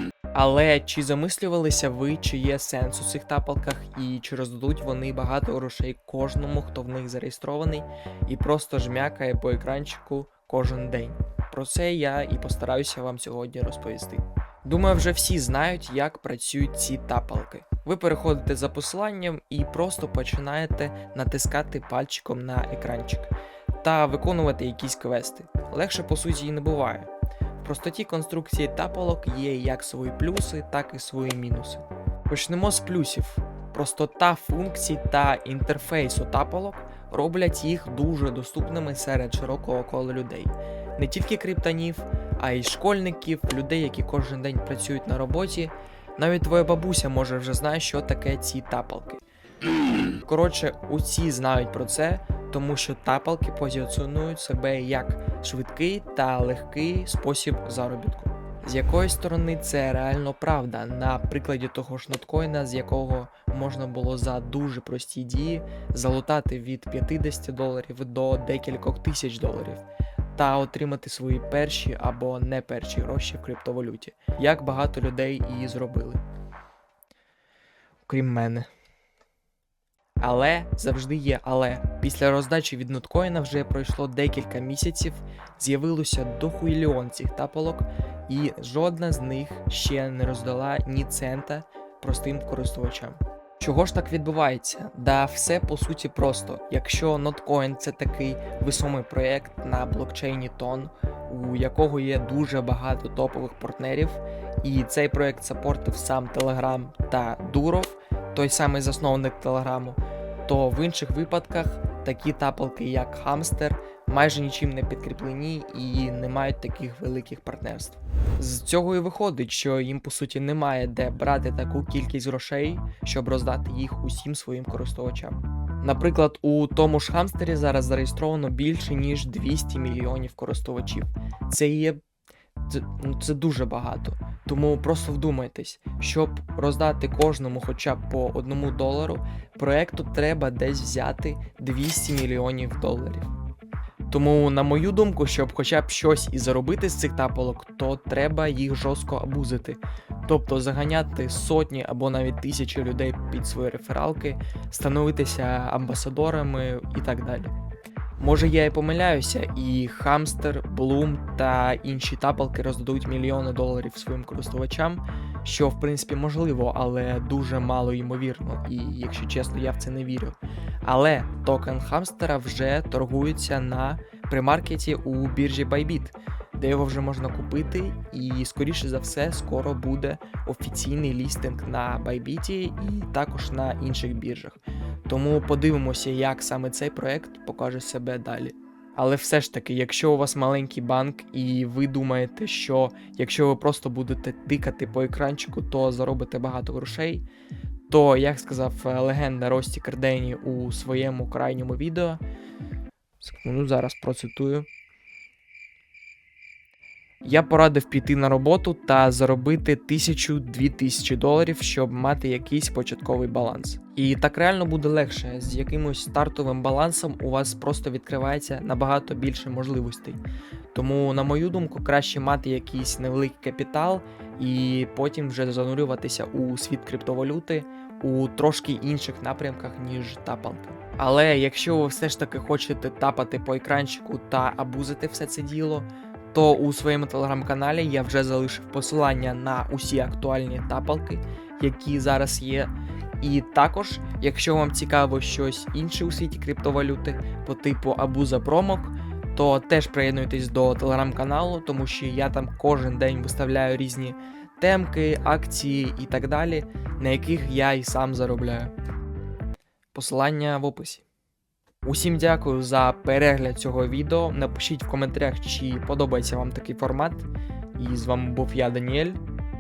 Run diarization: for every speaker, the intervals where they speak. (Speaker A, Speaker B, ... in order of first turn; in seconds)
Speaker A: 0.3-49.2, 50.2-69.8, 70.3-76.2, 78.1-78.7, 80.2-132.0, 132.7-143.3, 144.1-157.5, 158.2-197.3, 197.9-202.2, 203.2-204.7, 207.2-220.2, 220.7-258.7, 259.9-261.0, 261.8-269.2